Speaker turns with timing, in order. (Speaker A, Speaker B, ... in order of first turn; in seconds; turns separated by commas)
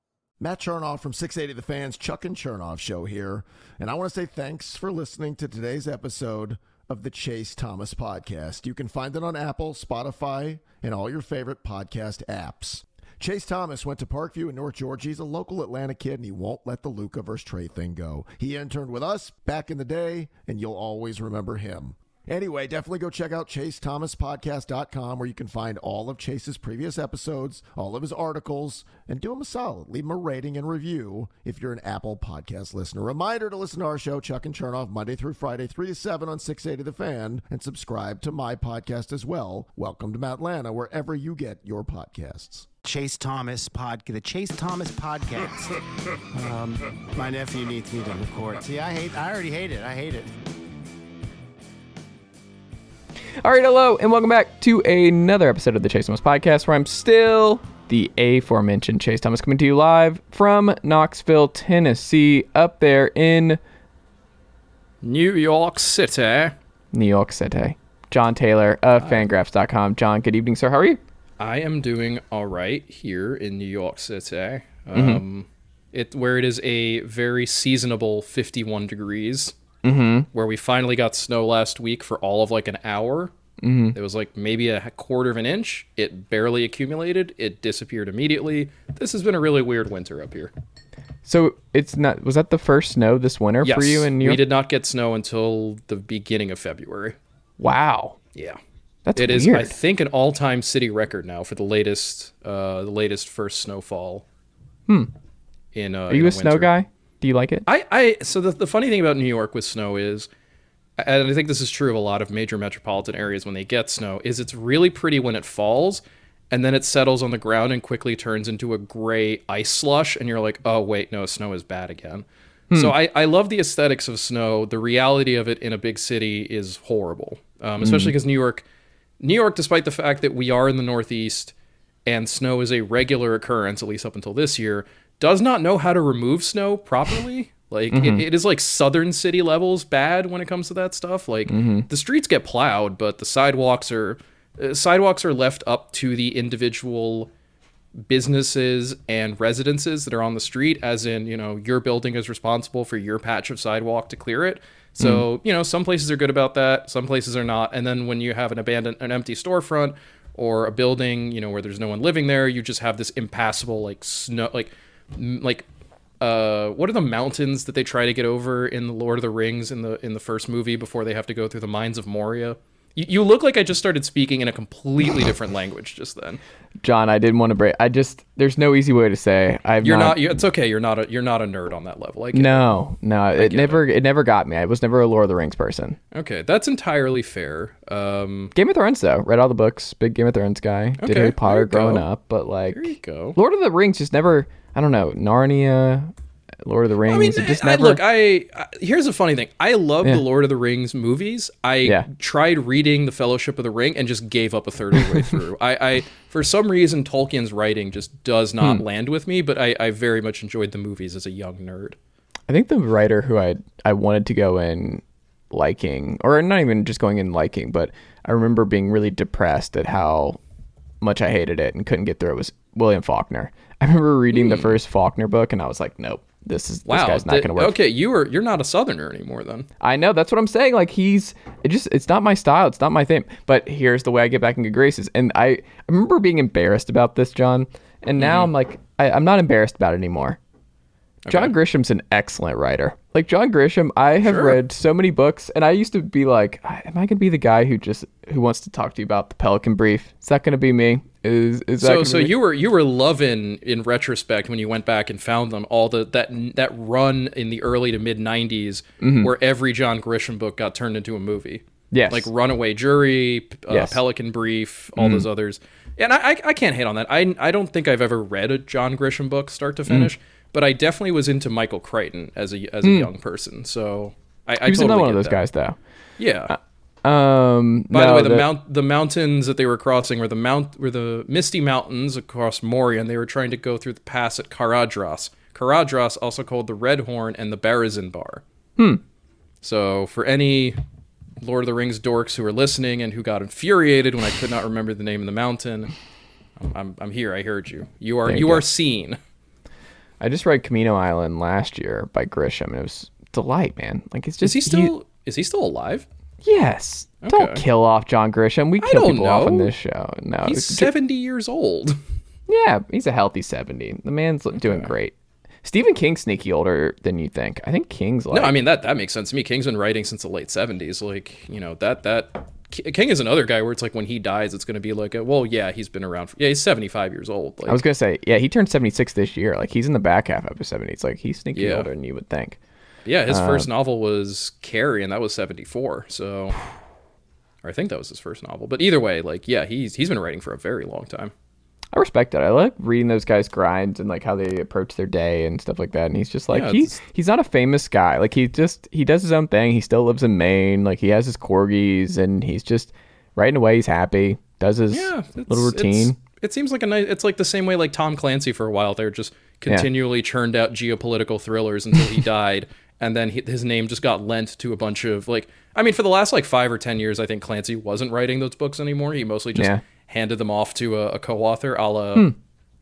Speaker A: 0.4-42.7, Speaker B: 42.8-45.8, Speaker B: 46.3-50.3, Speaker C: 53.4-63.6, Speaker D: 65.0-66.5, Speaker C: 66.9-71.0, Speaker D: 69.0-69.2, Speaker D: 71.4-79.5, Speaker C: 74.9-75.2, Speaker C: 79.8-80.3, Speaker D: 80.3-83.3, Speaker C: 83.6-84.0, Speaker D: 83.9-90.5, Speaker C: 91.2-94.4, Speaker D: 93.6-97.2, Speaker C: 97.6-98.2, Speaker C: 99.0-99.7, Speaker D: 99.2-104.2, Speaker D: 105.7-106.7, Speaker C: 106.1-107.7, Speaker D: 107.7-110.3, Speaker D: 111.0-128.6, Speaker C: 127.8-128.1, Speaker D: 129.2-131.5, Speaker D: 132.1-147.3, Speaker C: 137.9-138.2, Speaker C: 141.5-141.9, Speaker D: 148.1-165.7, Speaker C: 155.0-155.2, Speaker D: 166.2-176.4, Speaker C: 176.8-180.3, Speaker D: 179.8-182.7, Speaker C: 182.3-186.0, Speaker D: 183.4-183.8, Speaker D: 186.1-188.5, Speaker C: 188.5-196.1, Speaker D: 191.0-192.1, Speaker D: 192.7-193.3, Speaker C: 196.6-198.0, Speaker D: 197.1-212.0, Speaker C: 204.9-205.3, Speaker C: 212.5-220.4, Speaker C: 221.0-227.8, Speaker D: 224.3-224.7, Speaker D: 226.9-229.7, Speaker C: 229.8-240.4, Speaker D: 238.2-238.5, Speaker D: 241.2-241.5, Speaker C: 241.3-252.3, Speaker D: 244.2-244.6, Speaker D: 251.8-275.4, Speaker C: 259.0-259.3, Speaker C: 261.9-262.3, Speaker C: 263.7-264.0, Speaker C: 265.0-265.3, Speaker C: 272.8-273.1, Speaker C: 274.6-275.8, Speaker D: 276.2-276.5, Speaker C: 276.5-278.5, Speaker D: 277.9-288.4, Speaker D: 289.6-290.8, Speaker D: 291.4-295.9, Speaker D: 296.6-299.2, Speaker C: 298.2-298.6, Speaker C: 300.2-304.9, Speaker D: 304.4-306.1, Speaker C: 306.4-310.9, Speaker D: 307.2-307.6, Speaker D: 308.8-309.7, Speaker D: 310.4-312.0, Speaker C: 312.5-318.5, Speaker D: 314.6-314.9, Speaker D: 318.3-327.8, Speaker C: 327.7-332.6, Speaker D: 331.5-331.9, Speaker D: 333.1-336.6, Speaker C: 333.3-333.7, Speaker D: 337.6-341.3, Speaker C: 341.9-356.2, Speaker D: 346.5-347.0, Speaker D: 354.9-372.3, Speaker C: 369.5-369.8